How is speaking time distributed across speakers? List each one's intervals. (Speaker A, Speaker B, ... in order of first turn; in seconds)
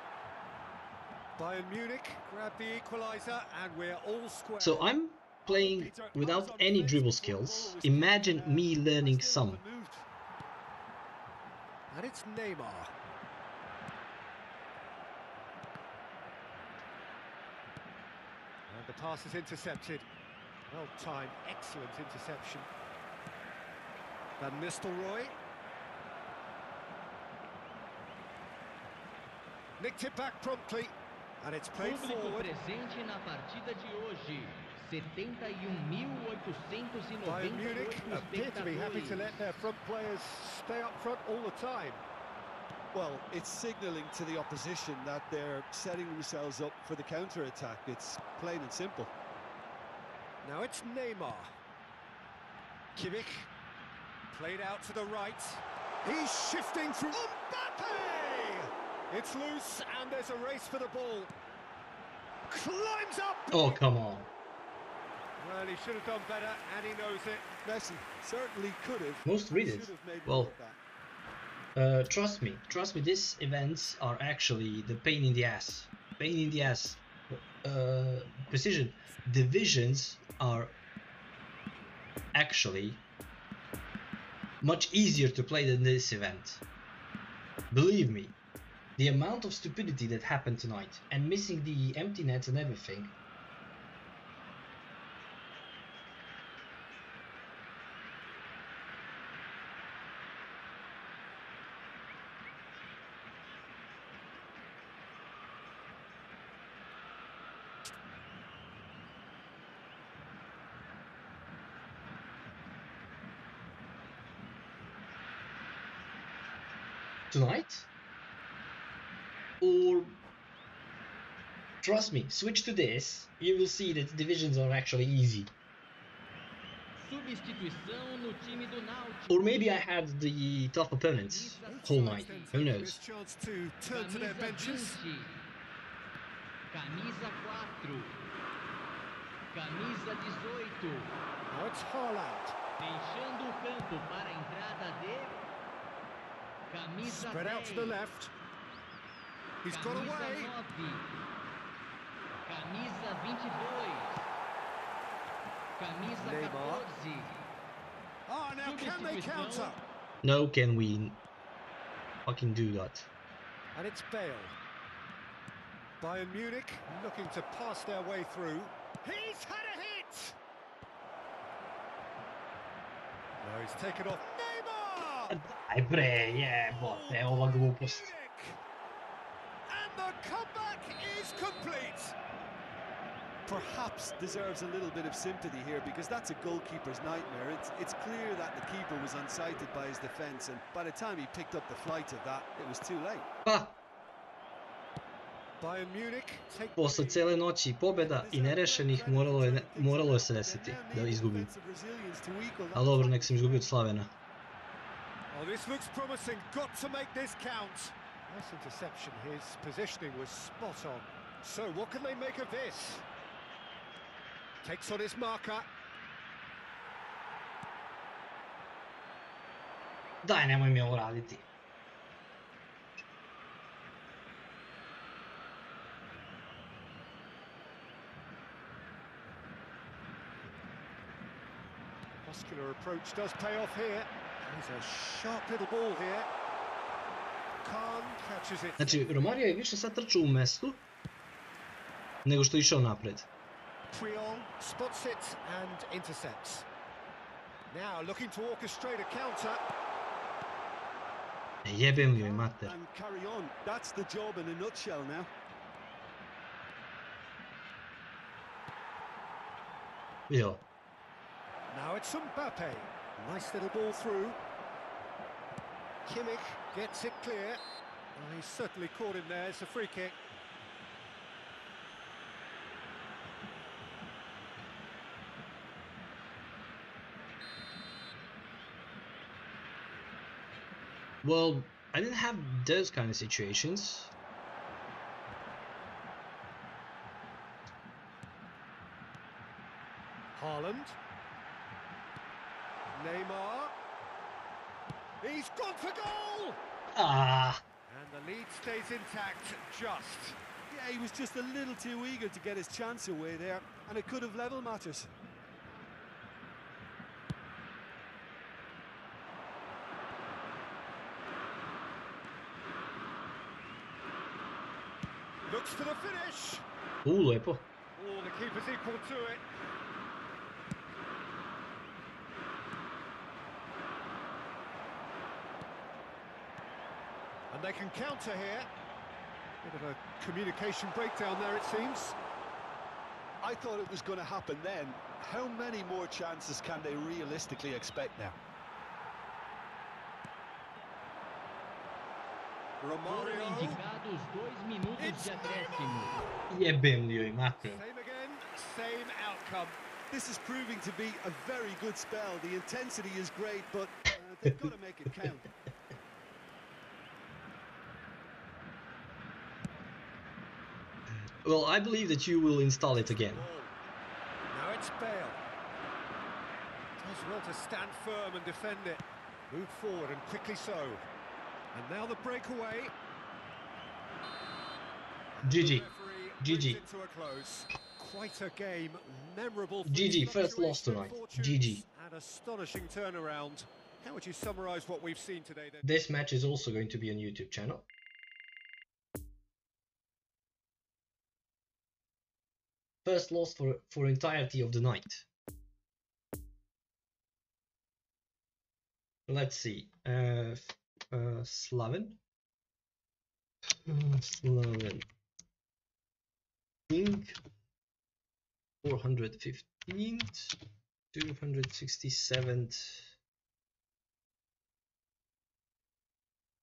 Speaker A: 1.4-4.9, 11.9-12.9, 18.7-20.1, 20.7-22.7, 24.4-25.4, 29.8-32.5, 37.2-42.0, 50.4-51.5, 53.0-53.5, 54.3-61.3, 62.5-63.8, 65.4-67.5, 131.6-135.0, 141.5-142.6, 147.0-148.3, 149.6-150.5, 156.2-156.9, 158.3-159.8, 163.7-164.5, 166.0-170.4, 173.4-175.4, 176.7-178.6, 179.7-182.2, 195.6-197.3, 205.3-213.0, 214.6-215.7, 232.2-236.3, 237.6-239.0, 243.9-246.7, 247.7-249.6, 261.7-264.4, 266.1-267.6, 268.1-270.1, 290.4-291.0, 292.9-293.7, 295.2-296.6, 297.9-300.4, 315.5-316.6, 317.9-319.4, 327.5-328.7, 329.6-332.1, 342.8-343.8, 345.0-345.7, 347.6-349.8, 362.9-363.7, 364.5-365.4, 367.0-371.0, 371.7-372.9, 375.3-385.9
Speaker B: 4.6-9.6, 63.5-64.3, 69.2-70.5, 71.8-80.7, 82.3-83.0, 84.6-86.6, 87.7-88.3, 89.0-93.1, 117.3-117.9, 119.6-120.2, 121.8-125.5, 129.3-133.0, 160.2-161.2, 162.2-163.1, 175.3-178.1, 193.4-193.8, 196.8-201.5, 202.7-204.1, 220.2-221.4, 238.8-240.8, 242.2-243.3, 251.6-252.7, 260.3-260.6, 281.2-284.1, 296.9-297.6, 317.0-317.7, 346.5-347.8, 361.4-363.5, 375.4-375.9, 376.4-376.8, 379.8-381.8, 385.8-387.9, 393.0-395.3, 399.3-402.2, 403.7-405.0, 406.9-407.4, 408.8-410.6, 411.1-413.1
Speaker C: 5.5-10.0, 42.9-49.1, 67.6-70.8, 183.4-193.3, 197.9-203.6, 251.9-255.3, 300.7-305.1, 333.4-338.4, 350.1-355.5
Speaker D: 31.8-39.5, 127.0-129.4, 131.1-132.6, 133.9-135.4, 136.7-138.2, 139.5-141.2, 142.8-145.4, 146.7-148.1, 149.7-151.2, 152.4-154.3, 155.8-157.4, 158.6-159.8, 343.0-346.2